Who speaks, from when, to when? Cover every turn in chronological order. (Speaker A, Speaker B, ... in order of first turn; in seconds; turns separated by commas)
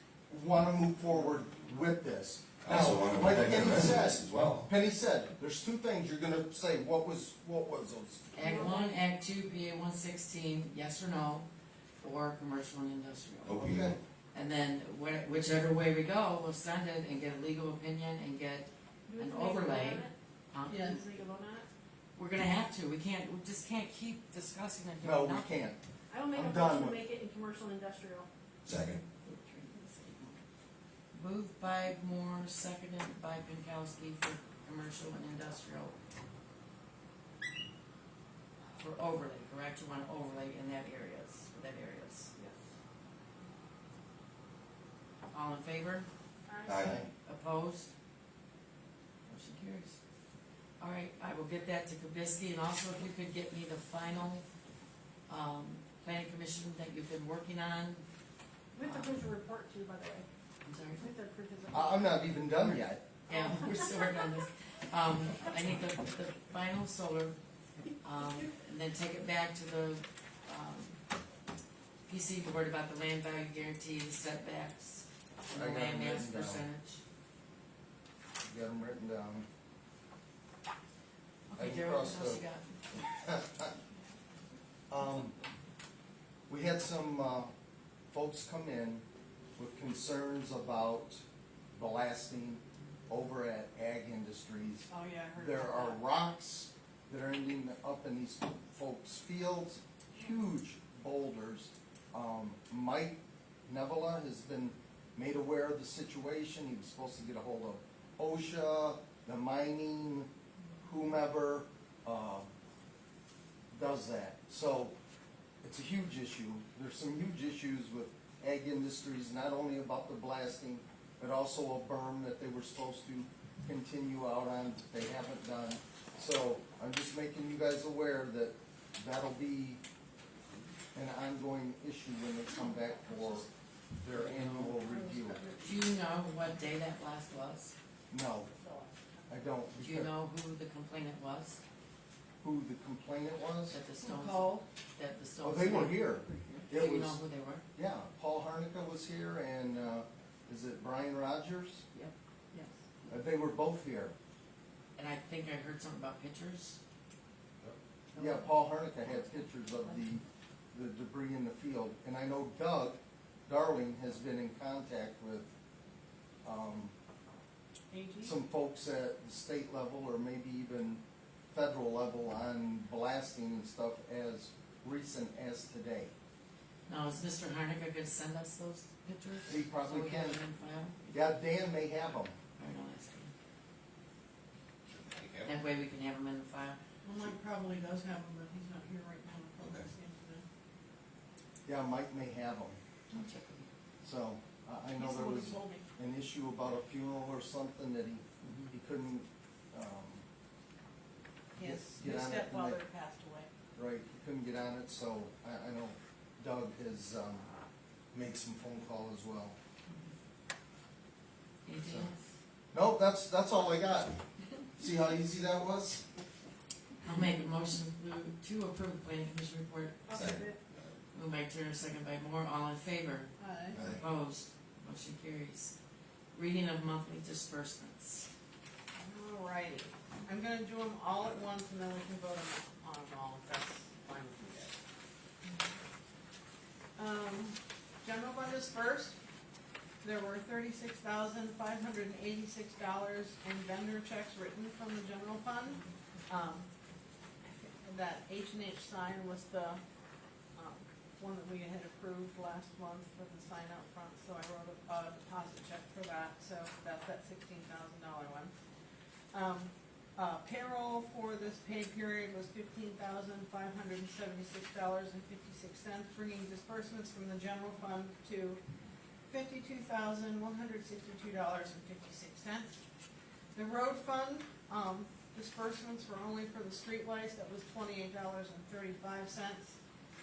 Speaker A: 0.3-8.3, Speaker B: 2.6-4.7, Speaker C: 8.3-13.6, Speaker D: 8.4-8.9, Speaker B: 13.4-14.0, Speaker A: 13.5-13.9, Speaker C: 14.3-21.0, Speaker D: 19.1-20.1, Speaker D: 20.7-21.7, Speaker E: 20.7-21.0, Speaker C: 22.1-25.5, Speaker A: 25.0-25.8, Speaker D: 26.1-28.3, Speaker A: 26.3-27.0, Speaker B: 28.6-29.0, Speaker D: 29.3-30.4, Speaker C: 31.1-36.0, Speaker C: 38.8-42.3, Speaker C: 45.3-46.1, Speaker D: 46.5-47.0, Speaker B: 46.7-47.1, Speaker C: 47.2-47.9, Speaker C: 49.3-50.0, Speaker C: 50.8-54.5, Speaker C: 55.3-58.0, Speaker D: 58.7-60.2, Speaker C: 58.8-59.1, Speaker C: 60.6-61.1, Speaker D: 61.0-62.4, Speaker A: 61.7-63.4, Speaker C: 63.3-67.4, Speaker D: 63.3-64.0, Speaker C: 68.0-71.0, Speaker C: 72.0-77.0, Speaker A: 75.5-76.7, Speaker A: 78.4-79.5, Speaker C: 81.5-83.0, Speaker A: 81.5-82.4, Speaker A: 83.2-83.7, Speaker A: 84.9-85.3, Speaker A: 86.5-87.5, Speaker A: 88.1-89.0, Speaker A: 89.6-91.2, Speaker A: 91.7-110.3, Speaker E: 94.9-96.0, Speaker A: 110.8-112.5, Speaker A: 113.7-114.9, Speaker A: 115.6-129.8, Speaker A: 130.9-133.5, Speaker A: 134.0-135.5, Speaker C: 134.1-134.8, Speaker E: 134.8-135.8, Speaker C: 135.6-137.7, Speaker A: 138.1-138.5, Speaker E: 138.5-139.3, Speaker A: 139.3-140.1, Speaker C: 139.8-141.6, Speaker A: 142.4-143.8, Speaker C: 143.7-147.7, Speaker E: 144.0-144.6, Speaker A: 145.4-147.2, Speaker D: 146.2-146.6, Speaker A: 147.8-151.8, Speaker D: 151.9-152.8, Speaker A: 153.1-154.1, Speaker C: 154.9-156.8, Speaker A: 158.1-165.5, Speaker A: 166.4-166.9, Speaker E: 167.9-168.3, Speaker A: 168.2-171.0, Speaker A: 171.5-176.1, Speaker C: 176.9-181.4, Speaker A: 179.5-180.4, Speaker A: 181.1-182.3, Speaker C: 182.6-183.3, Speaker B: 184.9-185.6, Speaker C: 185.4-186.8, Speaker E: 187.0-190.4, Speaker B: 189.6-189.9, Speaker A: 191.7-192.8, Speaker C: 193.1-193.7, Speaker A: 194.0-200.2, Speaker E: 194.9-195.8, Speaker C: 198.4-198.7, Speaker E: 201.6-203.5, Speaker A: 201.6-202.8, Speaker A: 203.7-207.5, Speaker A: 208.1-209.6, Speaker C: 209.9-210.1, Speaker C: 211.7-212.2, Speaker A: 211.8-212.1, Speaker A: 212.7-214.2, Speaker A: 214.8-216.1, Speaker C: 217.0-220.1, Speaker E: 220.1-220.6, Speaker B: 220.1-220.8, Speaker C: 221.1-225.7, Speaker E: 223.4-223.8, Speaker B: 223.7-224.0, Speaker C: 226.3-228.3, Speaker E: 228.9-234.8, Speaker E: 236.9-239.2, Speaker E: 240.0-246.7, Speaker E: 247.6-249.8, Speaker E: 250.6-258.5, Speaker E: 259.3-268.6, Speaker E: 269.3-272.8, Speaker E: 273.5-279.8